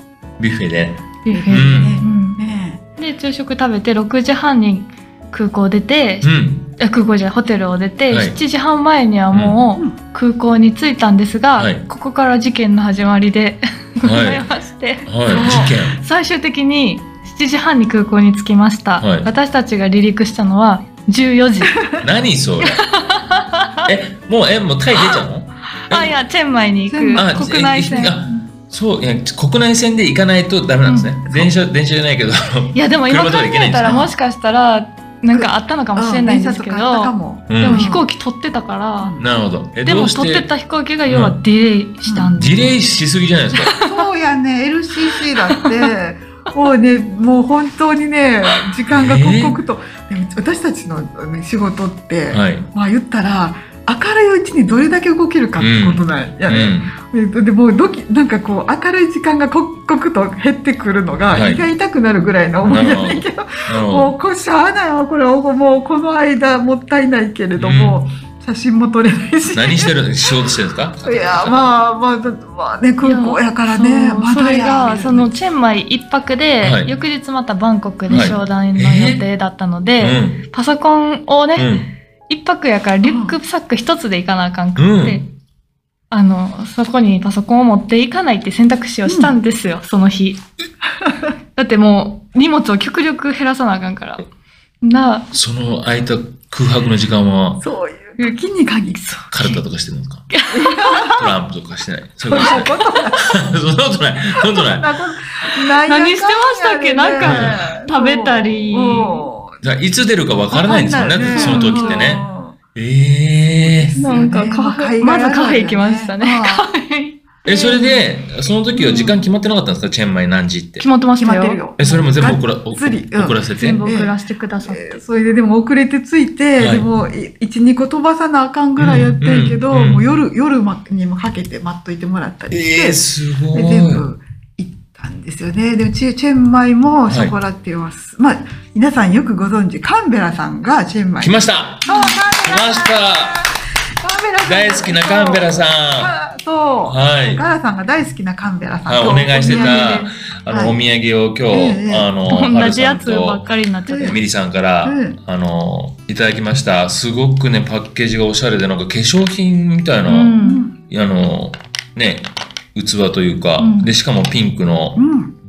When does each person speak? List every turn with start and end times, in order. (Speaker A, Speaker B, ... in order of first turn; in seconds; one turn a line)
Speaker A: 0.4-2.0
Speaker B: 1.2-2.4
Speaker C: 1.3-2.8
Speaker B: 3.0-21.8
Speaker A: 6.2-6.7
Speaker A: 8.1-8.4
Speaker A: 9.3-9.6
Speaker A: 11.6-11.8
Speaker A: 14.0-14.4
Speaker A: 15.0-16.0
Speaker C: 15.3-15.8
Speaker A: 19.0-19.3
Speaker A: 22.0-22.8
Speaker B: 22.6-23.9
Speaker A: 23.8-26.2
Speaker B: 25.8-28.3
Speaker C: 26.9-28.1
Speaker A: 27.1-34.1
Speaker B: 30.9-31.1
Speaker B: 32.7-39.1
Speaker C: 33.8-34.1
Speaker C: 35.3-38.0
Speaker A: 37.5-37.9
Speaker A: 39.2-40.5
Speaker B: 39.8-42.7
Speaker A: 41.1-41.4
Speaker C: 42.0-42.3
Speaker A: 42.4-43.7
Speaker B: 43.5-44.0
Speaker C: 43.8-69.9
Speaker B: 45.5-45.9
Speaker A: 48.9-49.6
Speaker A: 52.3-52.7
Speaker A: 55.6-56.9
Speaker A: 61.3-61.6
Speaker A: 62.6-64.1
Speaker A: 67.5-68.0
Speaker A: 69.5-71.7
Speaker C: 71.0-75.3
Speaker B: 73.0-85.3
Speaker A: 76.6-76.9
Speaker A: 78.1-79.2
Speaker A: 80.0-80.4
Speaker A: 81.6-81.9
Speaker C: 83.0-83.4
Speaker A: 84.8-85.2
Speaker B: 86.1-90.4
Speaker C: 89.1-89.3
Speaker C: 91.0-91.3
Speaker B: 91.5-94.3
Speaker B: 94.8-95.3
Speaker A: 95.3-97.6
Speaker C: 97.6-99.2
Speaker B: 99.0-99.5
Speaker A: 99.3-100.3
Speaker B: 100.3-101.1
Speaker C: 100.5-101.3
Speaker A: 101.1-104.9
Speaker C: 102.3-103.4
Speaker B: 102.3-102.7
Speaker C: 104.4-109.6
Speaker B: 105.8-109.3
Speaker A: 107.2-107.6
Speaker A: 109.6-114.0
Speaker C: 110.5-112.5
Speaker B: 111.2-112.1
Speaker C: 113.6-116.7
Speaker B: 114.0-118.0
Speaker A: 117.4-120.8
Speaker B: 118.7-119.1
Speaker B: 120.8-121.6
Speaker C: 121.2-150.8
Speaker A: 121.8-123.8
Speaker B: 123.5-125.0
Speaker A: 126.6-126.9
Speaker A: 128.8-130.1
Speaker A: 132.5-134.1
Speaker A: 137.1-137.3
Speaker A: 141.2-143.4
Speaker A: 144.4-146.1
Speaker A: 146.8-147.4
Speaker A: 148.8-160.4
Speaker B: 149.3-150.1
Speaker C: 151.5-152.1
Speaker B: 152.3-154.2
Speaker C: 153.9-154.2
Speaker C: 154.8-155.2
Speaker B: 160.1-160.6
Speaker C: 160.4-160.8
Speaker A: 160.9-165.0
Speaker B: 163.6-163.9
Speaker C: 164.9-165.3